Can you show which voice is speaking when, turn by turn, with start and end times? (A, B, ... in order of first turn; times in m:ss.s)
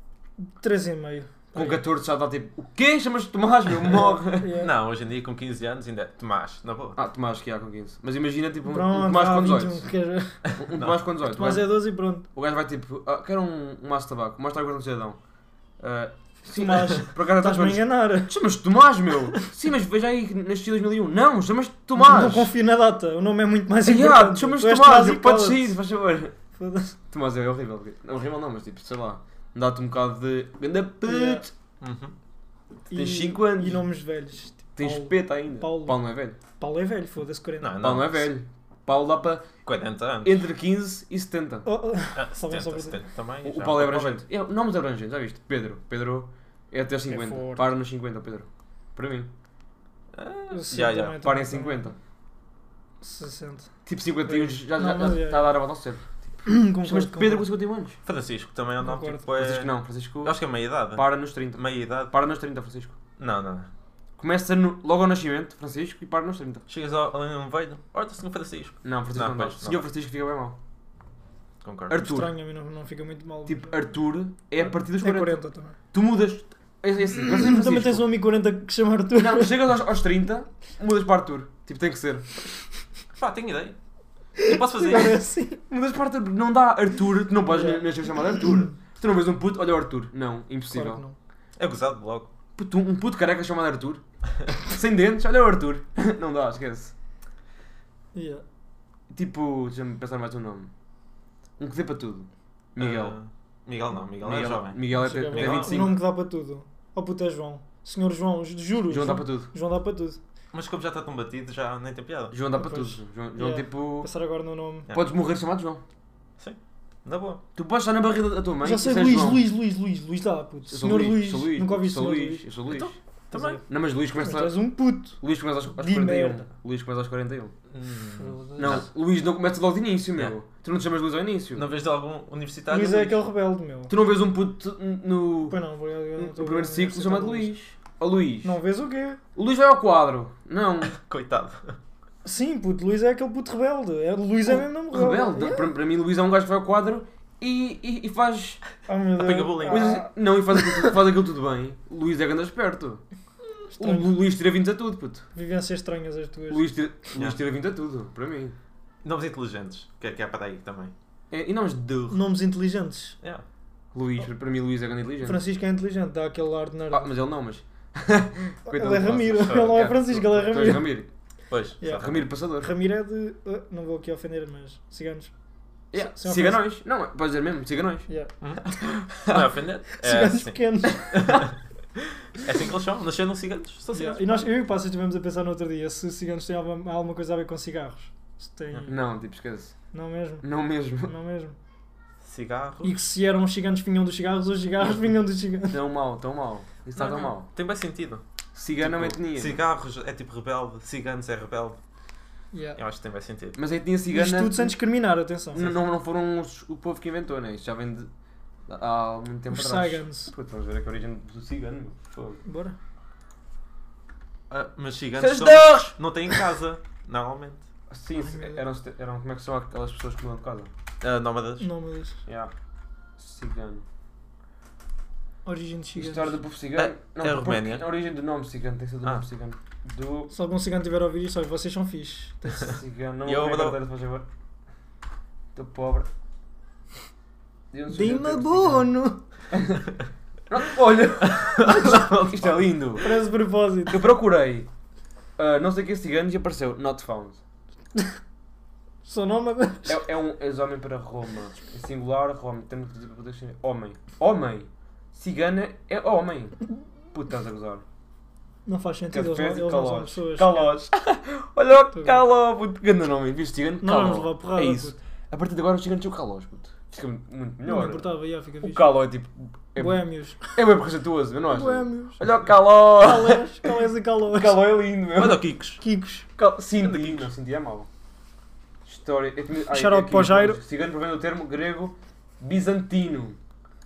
0:00.4-0:01.7 A
0:01.5-0:04.7 B
0:03.9-0:04.7 A
0:04.6-0:07.0 C
0:07.0-0:09.8 B
0:08.6-0:10.4 A
0:10.5-0:11.8 B
0:10.7-0:11.0 C
0:11.2-0:12.2 A
0:12.3-0:15.2 B
0:15.8-0:22.5 B
0:16.4-0:18.3 A
0:21.9-0:25.8 A
0:23.8-0:26.4 B
0:26.5-0:27.0 A
0:27.1-0:31.5 B
0:31.0-0:31.4 A
0:31.8-0:32.1 C
0:32.9-0:36.0 A
0:32.9-0:33.8 B
0:34.8-0:36.4 B
0:36.6-0:37.8 A
0:37.6-0:38.3 C
0:37.8-0:39.5 B
0:39.6-0:40.4 C
0:40.2-0:41.7 B
0:41.6-0:43.0 A
0:42.2-0:44.2 C
0:43.4-0:49.3 B
0:47.1-0:47.6 A
0:50.1-0:51.2 C
0:50.5-0:51.9 A
0:51.2-0:52.0 B
0:53.0-0:53.7 A
0:53.8-0:58.0 B
0:54.2-0:55.5 A
0:56.4-0:57.4 A
0:58.0-1:02.1 C
0:58.8-0:59.3 A
0:59.3-1:00.4 B
1:00.9-1:03.0 B
1:03.2-1:03.7 C
1:04.2-1:06.6 B
1:06.7-1:09.9 C
1:08.8-1:10.6 B
1:11.6-1:12.0 C
1:11.9-1:12.3 B
1:11.9-1:13.9 A
1:13.4-1:15.4 B
1:14.6-1:15.8 A
1:15.9-1:18.1 B
1:17.1-1:19.6 A
1:19.1-1:22.5 B
1:23.2-1:23.8 C
1:24.4-1:25.6 A
1:24.4-1:25.2 C
1:25.7-1:31.0 B
1:27.5-1:28.3 A
1:30.7-1:31.1 A
1:31.6-1:32.3 C
1:32.6-1:34.0 B
1:34.6-1:36.9 B
1:38.1-1:38.4 A
1:39.1-1:40.7 B
1:41.6-1:43.1 B
1:42.8-1:45.9 C
1:44.2-1:46.0 B
1:45.0-1:50.2 A
1:48.9-1:49.5 B
1:50.5-1:52.3 C
1:52.3-1:54.1 B
1:52.6-1:54.9 A
1:54.9-1:55.8 B
1:56.4-1:57.4 C
1:57.6-1:59.5 B
1:58.6-2:02.4 A
2:00.7-2:03.0 B
2:02.7-2:03.6 C
2:03.3-2:03.6 A
2:03.7-2:04.6 B
2:04.2-2:05.2 A
2:05.2-2:07.5 B
2:05.7-2:06.4 A
2:07.7-2:08.8 C
2:08.2-2:08.8 A
2:08.6-2:11.7 B
2:11.5-2:13.3 C
2:12.7-2:13.9 A
2:13.9-2:15.6 B
2:15.5-2:17.5 A
2:16.2-2:18.6 B
2:18.4-2:19.2 A
2:19.4-2:21.0 B
2:20.8-2:21.8 C
2:22.2-2:25.7 A
2:24.4-2:28.6 B
2:28.8-2:30.8 A
2:29.2-2:29.9 C
2:29.6-2:33.0 B
2:33.8-2:34.1 A
2:33.8-2:35.2 B
2:35.3-2:36.6 A
2:36.5-2:38.5 B
2:39.0-2:40.9 C
2:41.3-2:42.2 B
2:42.1-2:43.2 A
2:43.9-2:45.4 B
2:45.2-2:47.1 A
2:46.9-2:51.1 B
2:48.7-2:50.9 A
2:49.4-2:49.8 C
2:51.5-2:52.2 C
2:51.8-2:55.3 A
2:52.0-2:52.7 B
2:55.9-2:58.1 B
2:55.9-2:56.6 A
2:58.1-2:58.3 A
2:58.8-2:59.4 B
2:59.2-3:00.6 C
2:59.9-3:01.1 A
3:01.1-3:01.6 C
3:02.3-3:04.5 C
3:03.9-3:09.0 A
3:08.9-3:09.7 B
3:09.9-3:10.5 A
3:10.4-3:11.1 B
3:11.0-3:11.6 A
3:12.2-3:13.0 C
3:12.8-3:15.8 A
3:15.7-3:17.5 B
3:17.0-3:18.2 C
3:18.6-3:19.6 B
3:18.8-3:21.8 C
3:22.5-3:22.8 A
3:22.8-3:23.6 C
3:23.6-3:24.7 B
3:24.1-3:25.7 A
3:25.5-3:28.1 B
3:28.7-3:32.4 B
3:29.5-3:30.3 A
3:32.4-3:32.7 A
3:34.5-3:37.6 C
3:35.1-3:36.3 B
3:37.9-3:40.7 B
3:38.2-3:38.6 A
3:41.0-3:41.7 C
3:41.6-3:42.2 A
3:42.2-3:42.5 B
3:43.2-3:43.8 B
3:45.4-3:46.4 A
3:45.9-3:50.3 B
3:46.8-3:47.8 C
3:50.3-3:52.5 A
3:52.5-3:54.2 B
3:53.2-3:53.8 C
3:55.5-3:56.1 B
3:57.7-3:58.9 B
3:57.9-3:59.2 A
3:59.5-3:59.8 B
4:00.5-4:03.2 B
4:01.2-4:02.6 C
4:03.0-4:04.0 A
4:03.9-4:04.7 B
4:05.4-4:07.4 B
4:09.0-4:10.0 A
4:09.8-4:17.8 B
4:18.6-4:20.7 A
4:19.1-4:28.0 B
4:21.9-4:22.2 A
4:23.8-4:24.9 A
4:27.7-4:29.0 A
4:28.6-4:30.0 B
4:29.8-4:30.6 A
4:30.5-4:33.7 B
4:31.5-4:32.2 A
4:33.0-4:34.7 A
4:34.3-4:35.4 B
4:35.1-4:35.8 C
4:35.8-4:36.3 A
4:36.4-4:37.9 B
4:36.8-4:37.3 C
4:38.8-4:43.4 B
4:39.7-4:40.6 A